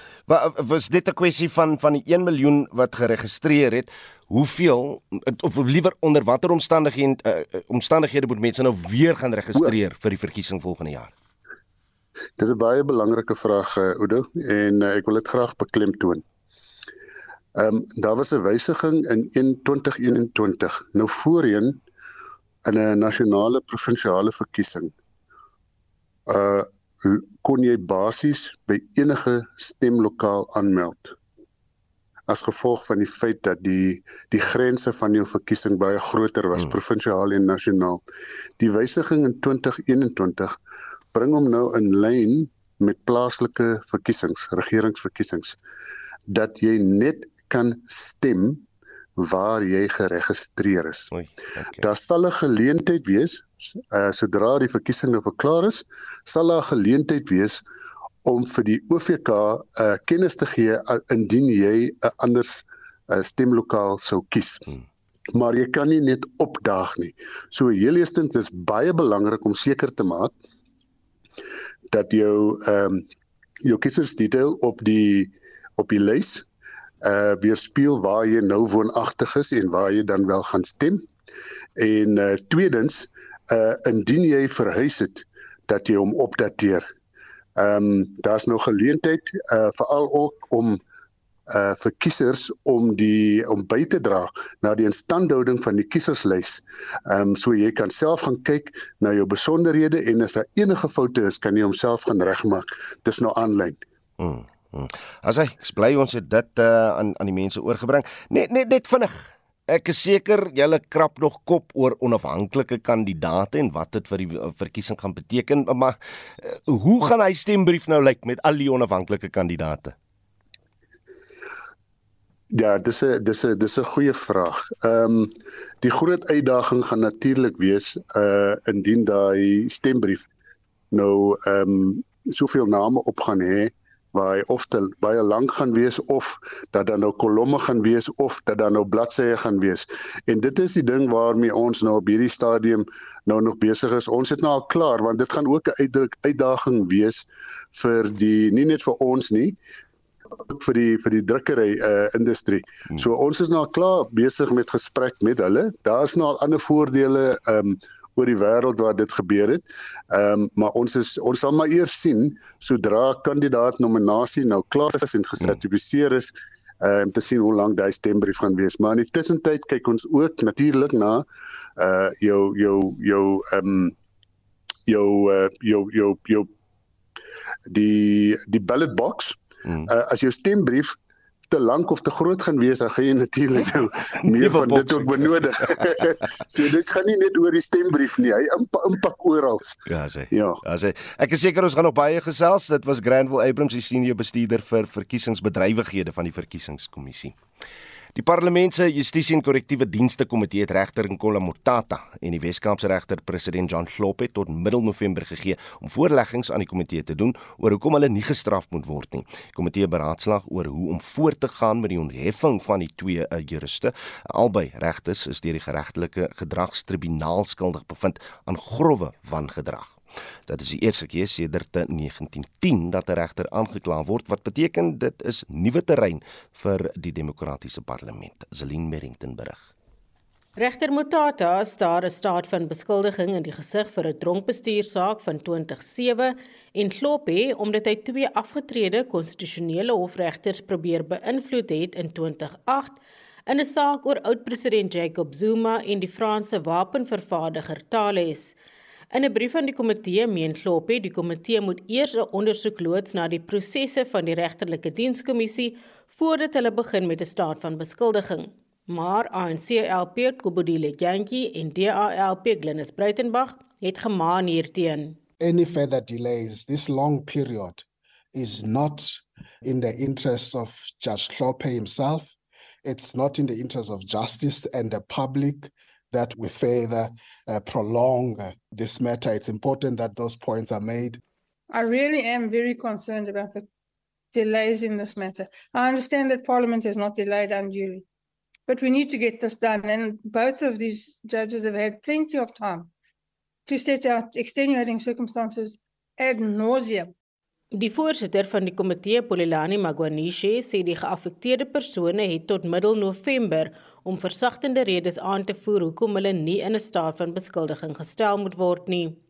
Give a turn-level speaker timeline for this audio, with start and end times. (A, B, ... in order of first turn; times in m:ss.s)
0:00.3-0:11.1 A
0:12.4-0:16.2 B
0:17.6-0:21.8 B
0:22.6-0:24.9 B
0:26.3-0:31.1 B
0:32.3-0:38.0 B
0:38.6-0:40.5 B
0:41.1-0:45.6 B
0:46.3-0:48.6 B
0:49.2-0:51.1 B
0:51.1-0:51.8 A
0:51.8-0:57.6 B
0:58.2-1:04.7 B
1:05.3-1:10.3 B
1:11.9-1:13.0 B
1:13.6-1:16.4 B
1:17.0-1:21.0 B
1:21.8-1:26.8 B
1:27.6-1:30.8 B
1:31.5-1:43.8 B
1:44.2-1:59.9 A
2:02.5-2:10.2 B
2:10.9-2:29.6 B
2:30.5-2:51.2 B
2:51.8-2:53.9 B
2:54.9-2:56.5 B
2:57.7-2:59.4 B
2:59.9-3:00.9 B
3:01.5-3:09.8 B
3:04.3-3:05.5 A
3:09.9-3:17.4 A
3:10.3-3:10.6 B
3:18.1-3:49.7 A
3:50.6-4:08.5 C
4:09.1-4:25.2 C
4:25.4-4:41.2 D
4:41.7-4:43.6 E
4:44.3-4:48.0 E
4:48.7-4:52.9 E
4:53.6-4:57.1 E
4:57.7-5:09.2 C